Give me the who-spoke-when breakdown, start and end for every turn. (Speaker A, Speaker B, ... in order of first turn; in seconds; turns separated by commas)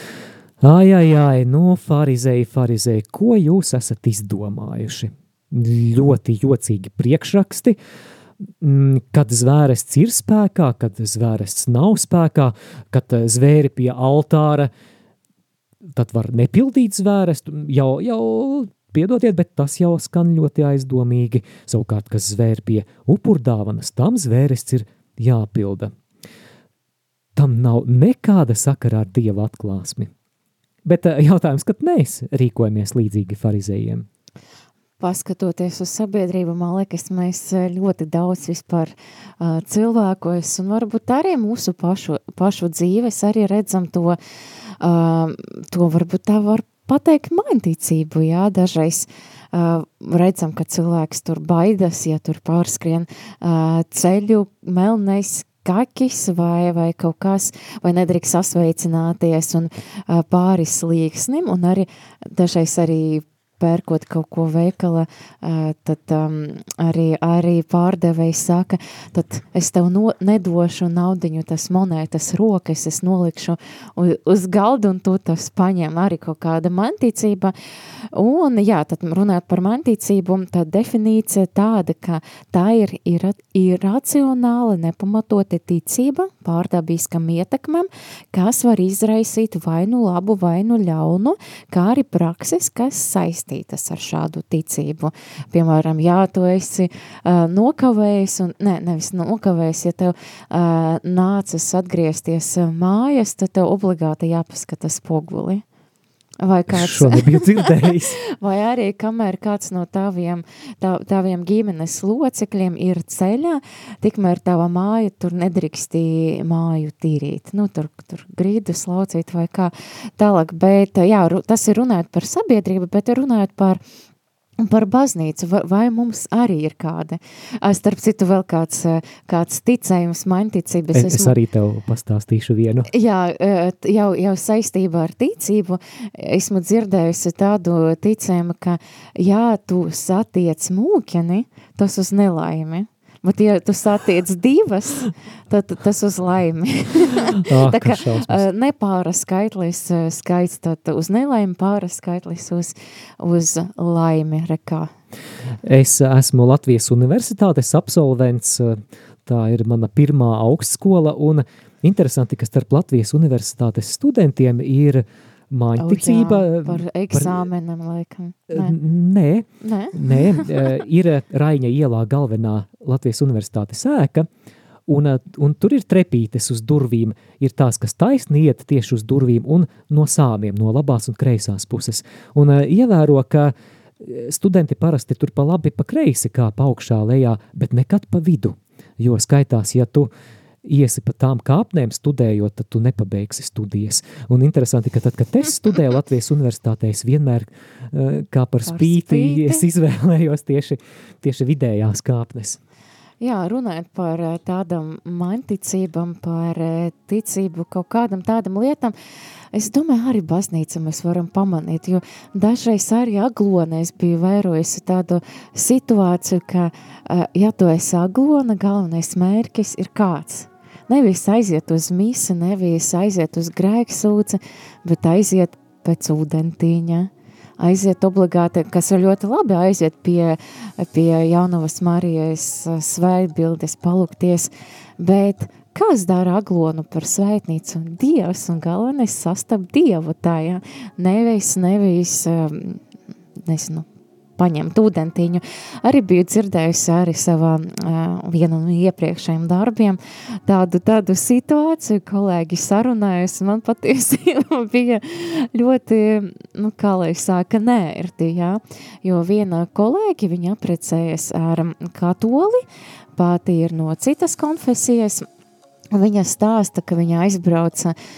Speaker A: 0.6-7.8, Speaker A: 8.6-14.7, Speaker A: 15.9-25.9, Speaker A: 27.4-30.1, Speaker A: 30.8-34.1, Speaker B: 35.0-44.2, Speaker B: 44.8-77.5, Speaker B: 78.1-105.6, Speaker B: 106.4-123.8, Speaker A: 106.7-108.2, Speaker B: 124.6-131.3, Speaker A: 130.9-132.9, Speaker B: 132.9-154.9, Speaker A: 147.4-148.4, Speaker A: 155.6-167.4, Speaker B: 165.8-168.8, Speaker A: 168.5-174.3, Speaker B: 169.6-170.7, Speaker A: 174.9-190.1, Speaker A: 190.6-202.6, Speaker B: 198.7-199.6, Speaker B: 203.2-208.9, Speaker B: 209.5-242.8, Speaker B: 243.4-243.8, Speaker B: 244.4-262.6, Speaker B: 263.1-265.2, Speaker B: 265.9-267.9